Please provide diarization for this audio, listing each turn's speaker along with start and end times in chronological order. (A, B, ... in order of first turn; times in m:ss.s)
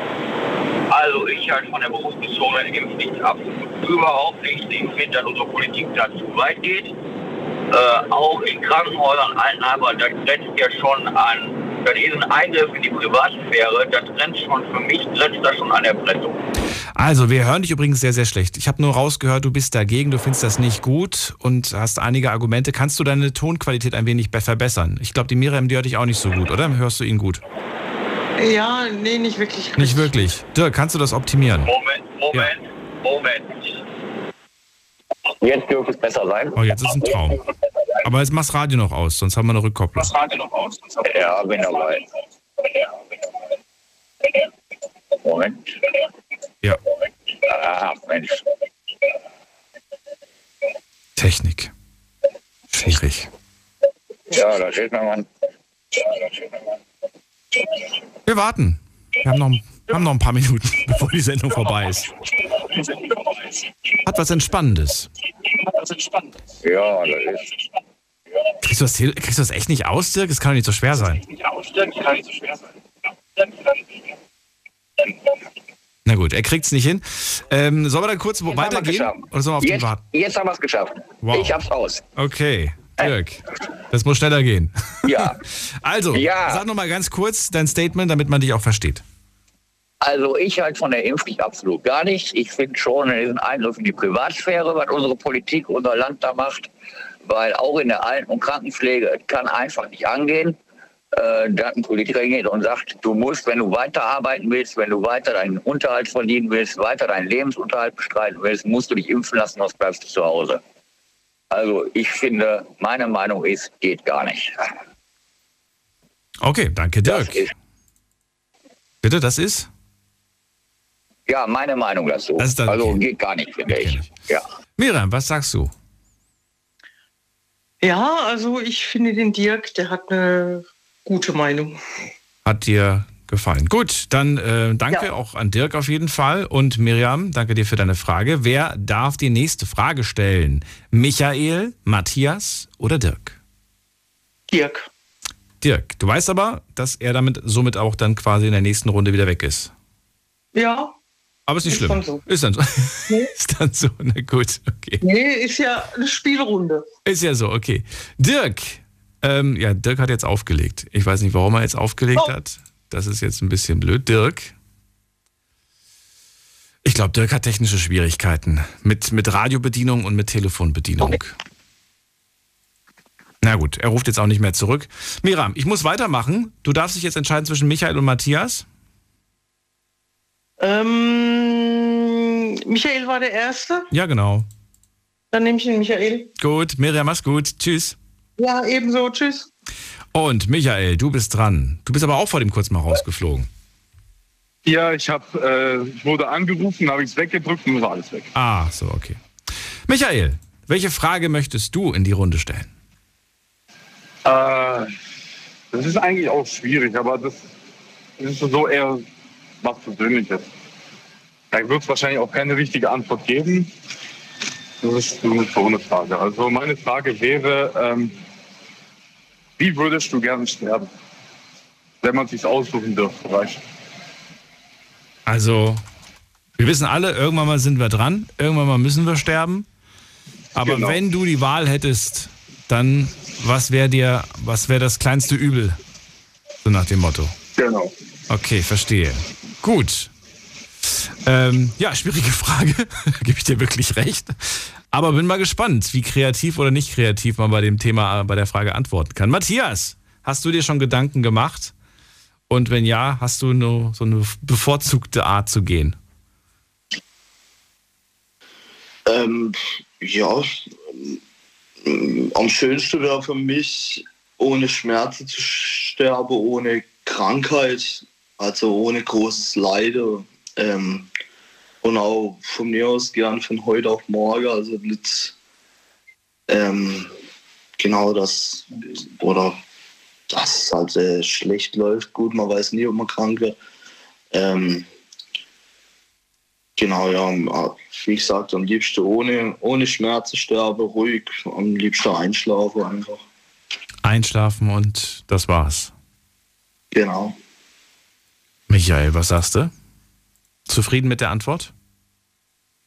0:00.9-0:06.9 A
0:07.7-0:16.4 A
0:17.0-0:27.4 B
0:28.4-0:30.2 C
0:29.8-0:31.7 B
0:31.7-0:33.7 A
0:35.4-0:36.6 A
0:36.6-0:37.4 B
0:38.0-0:40.1 B
0:40.2-0:42.0 A
0:45.2-0:45.7 A
0:47.4-0:48.4 A
0:51.2-0:51.7 B
0:52.7-0:53.3 B
0:54.3-0:55.3 A
0:56.2-0:56.5 A
0:58.3-1:02.1 B
1:04.1-1:05.1 B
1:06.6-1:07.5 A
1:08.6-1:11.2 B
1:11.7-1:12.0 A
1:16.1-1:20.0 B
1:18.6-1:22.0 A
1:21.2-1:29.0 B
1:25.1-1:25.4 A
1:26.1-1:26.6 A
1:30.1-1:36.6 A
1:37.3-1:40.5 A
1:41.2-1:50.6 A
1:51.5-1:54.6 A
1:56.4-1:57.5 B
1:57.0-1:57.5 A
1:59.0-1:59.7 B
2:01.3-2:04.4 A
2:02.4-2:03.0 B
2:03.7-2:04.1 B
2:04.8-2:05.7 B
2:07.8-2:11.8 C
2:12.4-2:23.4 B
2:24.5-2:24.9 C
2:25.6-2:29.7 B
2:30.6-2:31.0 C
2:31.5-2:35.0 B
2:31.7-2:32.2 C
2:35.0-2:36.9 C
2:37.0-2:44.6 B
2:46.8-2:51.4 B
2:53.4-2:58.7 B
3:00.6-3:03.9 C
3:03.9-3:04.5 B
3:05.3-3:06.3 C
3:06.4-3:08.0 B
3:08.4-3:09.5 C
3:10.1-3:13.5 B
3:14.6-3:18.3 D
3:18.3-3:19.2 B
3:19.9-3:22.7 B
3:24.2-3:24.9 D
3:25.7-3:27.5 D
3:28.2-3:29.1 D
3:29.6-3:30.5 D
3:31.5-3:33.7 D
3:34.8-3:38.2 D
3:39.6-3:40.9 D
3:42.0-3:43.6 D
3:45.3-3:45.8 B
3:46.6-3:49.7 B
3:50.6-3:55.8 B
3:50.6-3:51.0 D
3:56.6-3:57.3 B
3:57.6-3:57.9 D
3:58.3-4:00.1 B
4:01.2-4:11.7 B
4:12.5-4:16.0 B
4:19.1-4:21.2 E
4:21.8-4:31.1 E
4:31.8-4:35.3 E
4:36.5-4:37.1 E
4:37.8-4:39.6 E
4:40.3-4:43.6 E
4:44.3-4:44.9 E
4:46.8-4:53.2 E
4:54.0-4:55.9 B
4:56.9-4:57.4 E
4:58.7-4:59.7 B
5:00.7-5:01.7 B